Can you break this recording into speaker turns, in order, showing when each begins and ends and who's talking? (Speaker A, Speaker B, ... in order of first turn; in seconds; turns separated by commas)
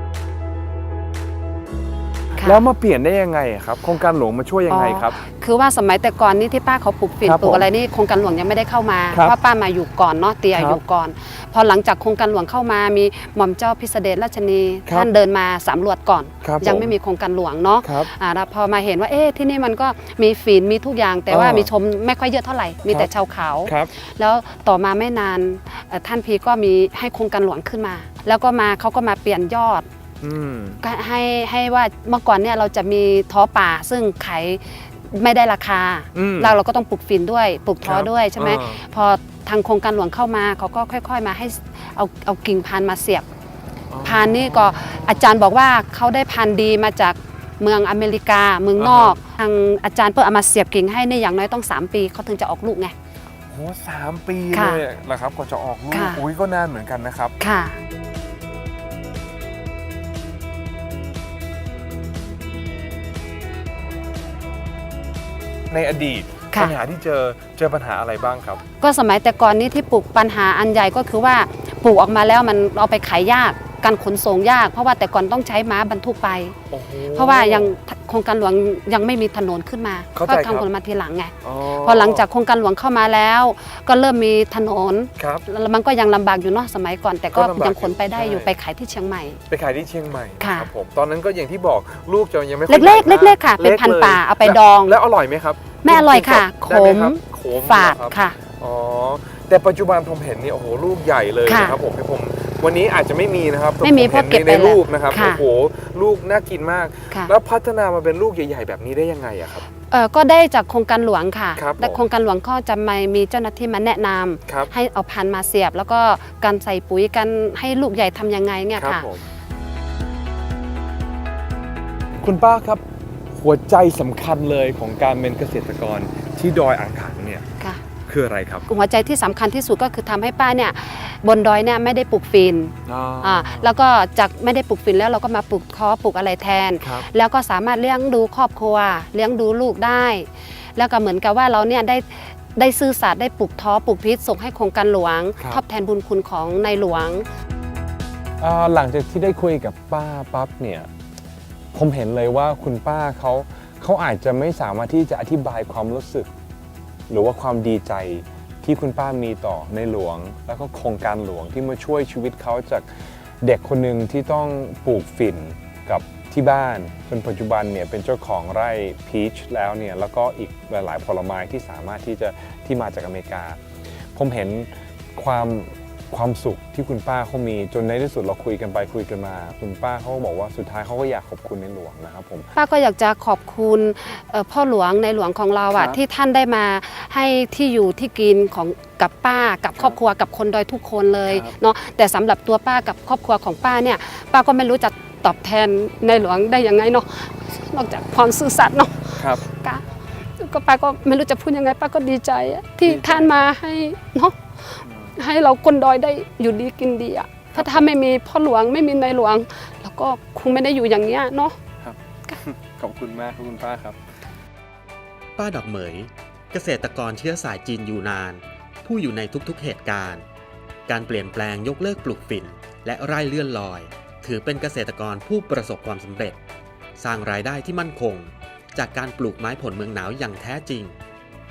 Speaker A: 2.3-2.6, Speaker B: 2.4-5.2, Speaker A: 4.7-29.9, Speaker B: 7.2-7.6, Speaker B: 10.5-10.8, Speaker B: 16.4-16.9, Speaker B: 17.8-18.1, Speaker B: 21.3-21.7, Speaker B: 23.6-23.9, Speaker B: 30.2-30.8, Speaker A: 30.8-43.2, Speaker B: 36.1-36.6, Speaker B: 37.8-38.8, Speaker B: 43.9-45.2, Speaker A: 44.0-52.9, Speaker B: 48.8-49.2, Speaker B: 53.5-57.3, Speaker A: 54.5-54.8, Speaker A: 55.9-56.2, Speaker A: 57.4-57.8, Speaker B: 65.7-68.6, Speaker A: 68.8-76.6, Speaker B: 76.7-77.8, Speaker A: 77.1-89.4, Speaker B: 80.1-80.7, Speaker B: 81.4-82.3, Speaker B: 85.2-85.4, Speaker B: 87.3-88.5, Speaker B: 89.5-109.7, Speaker A: 90.4-90.7, Speaker A: 92.7-95.0, Speaker A: 95.8-98.4, Speaker A: 101.5-101.8, Speaker A: 103.8-105.4, Speaker A: 109.9-119.1, Speaker B: 111.5-112.0, Speaker B: 118.8-119.2, Speaker B: 122.2-122.8, Speaker B: 123.3-127.4, Speaker B: 128.1-128.6, Speaker A: 128.7-147.2, Speaker B: 132.8-133.7, Speaker B: 136.8-137.1, Speaker B: 148.4-150.9, Speaker B: 151.7-156.3, Speaker B: 157.1-162.9, Speaker B: 163.4-173.6, Speaker B: 174.1-182.5, Speaker A: 182.5-199.8, Speaker B: 185.7-186.0, Speaker B: 191.3-191.5, Speaker B: 199.2-199.4, Speaker A: 200.3-211.6, Speaker B: 202.8-203.3, Speaker B: 204.8-205.1, Speaker B: 207.5-207.8, Speaker B: 211.8-214.0, Speaker C: 215.4-220.2, Speaker C: 220.9-226.4, Speaker C: 227.0-230.9